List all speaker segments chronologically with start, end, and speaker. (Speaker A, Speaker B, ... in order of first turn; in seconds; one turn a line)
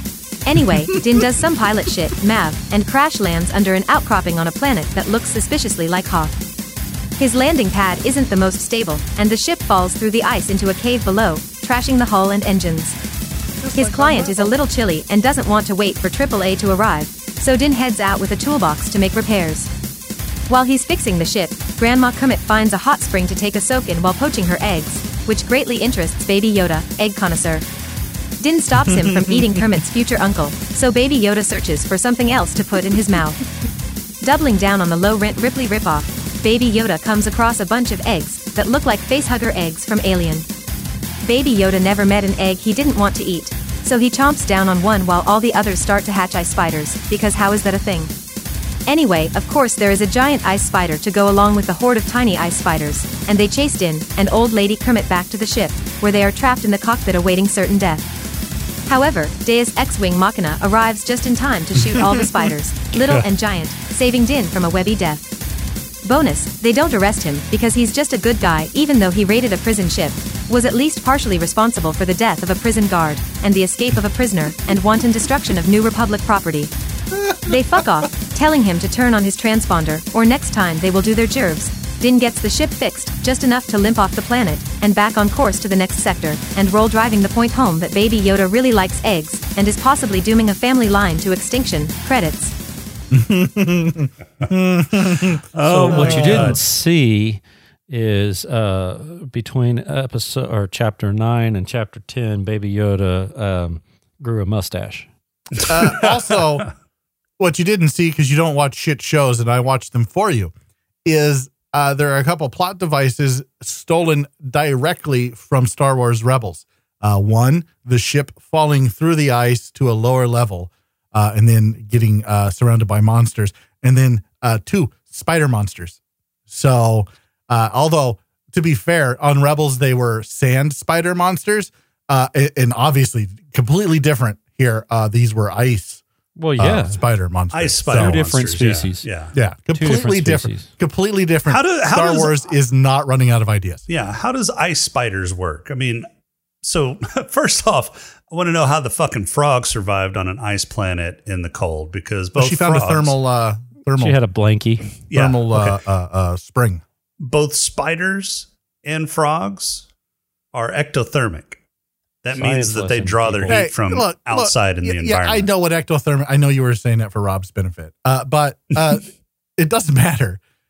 Speaker A: 0.4-6.3
Speaker A: 7.2-13.0
Speaker B: 13.6-14.6
Speaker A: 13.7-19.7
Speaker A: 20.5-27.6
Speaker A: 28.4-33.4
Speaker B: 28.9-29.4
Speaker A: 34.2-40.5
Speaker A: 41.2-48.1
Speaker A: 48.9-58.0
Speaker A: 58.9-65.2
Speaker B: 61.9-62.3
Speaker C: 63.0-63.3
Speaker A: 66.0-76.7
Speaker A: 77.4-92.5
Speaker B: 93.1-96.6
Speaker C: 95.5-96.6
Speaker D: 95.6-105.1
Speaker C: 105.6-106.4
Speaker B: 105.7-106.7
Speaker B: 107.4-110.5
Speaker B: 111.0-136.0
Speaker D: 136.4-137.0
Speaker B: 136.6-138.2
Speaker C: 137.5-139.3
Speaker D: 137.9-139.1
Speaker B: 139.3-143.8
Speaker D: 139.7-140.7
Speaker C: 141.5-142.3
Speaker C: 143.9-146.1
Speaker C: 146.6-153.1
Speaker B: 152.3-154.2
Speaker D: 153.9-154.9
Speaker C: 155.1-155.8
Speaker B: 155.1-156.8
Speaker C: 157.2-159.8
Speaker C: 160.5-161.6
Speaker C: 162.2-165.5
Speaker D: 162.3-163.6
Speaker B: 163.5-170.4